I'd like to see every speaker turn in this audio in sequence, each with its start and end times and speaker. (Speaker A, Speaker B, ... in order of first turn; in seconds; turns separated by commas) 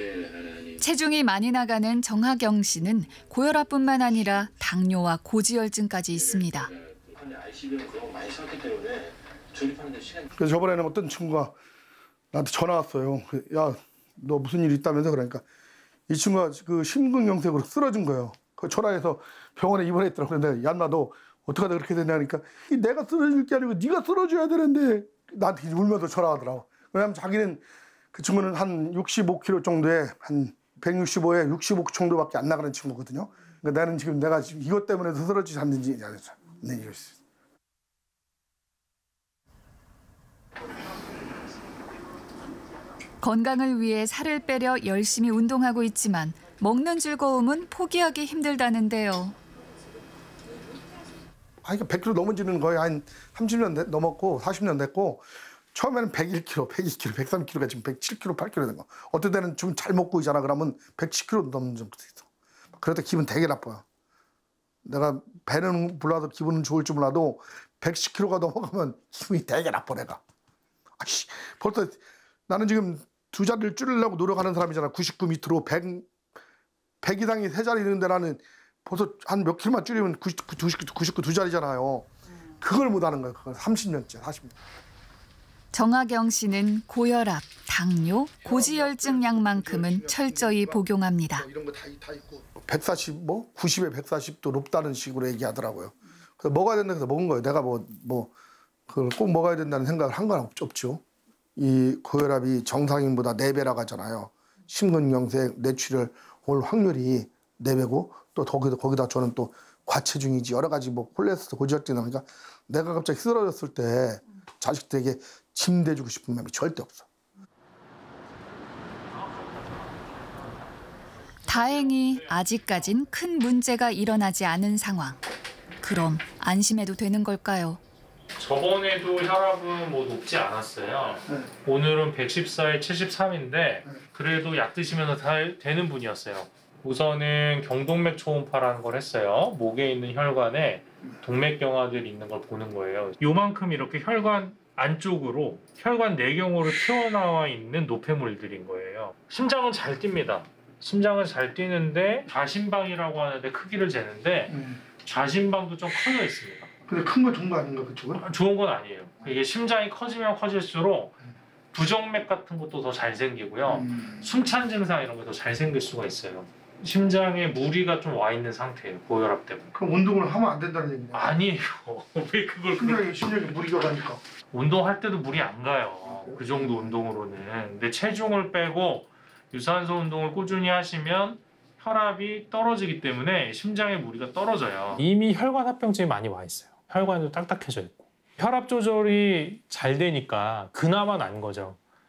Speaker A: 0.8-6.7, Speaker B: 10.3-11.5, Speaker B: 12.3-15.4, Speaker B: 16.1-37.2, Speaker A: 43.2-49.4, Speaker B: 51.6-62.2, Speaker B: 62.8-63.8, Speaker B: 64.8-70.2, Speaker B: 71.0-76.1, Speaker B: 77.0-84.5, Speaker A: 85.7-91.5, Speaker B: 88.4-98.3, Speaker B: 98.9-101.0, Speaker B: 101.6-117.1, Speaker A: 121.5-125.2, Speaker A: 125.8-127.8, Speaker C: 128.4-156.7, Speaker B: 154.5-154.8, Speaker B: 156.8-158.2, Speaker C: 158.2-161.2, Speaker C: 161.7-169.7, Speaker B: 169.7-171.3, Speaker C: 171.1-173.1, Speaker B: 172.7-174.2, Speaker C: 174.5-191.8, Speaker B: 176.1-177.0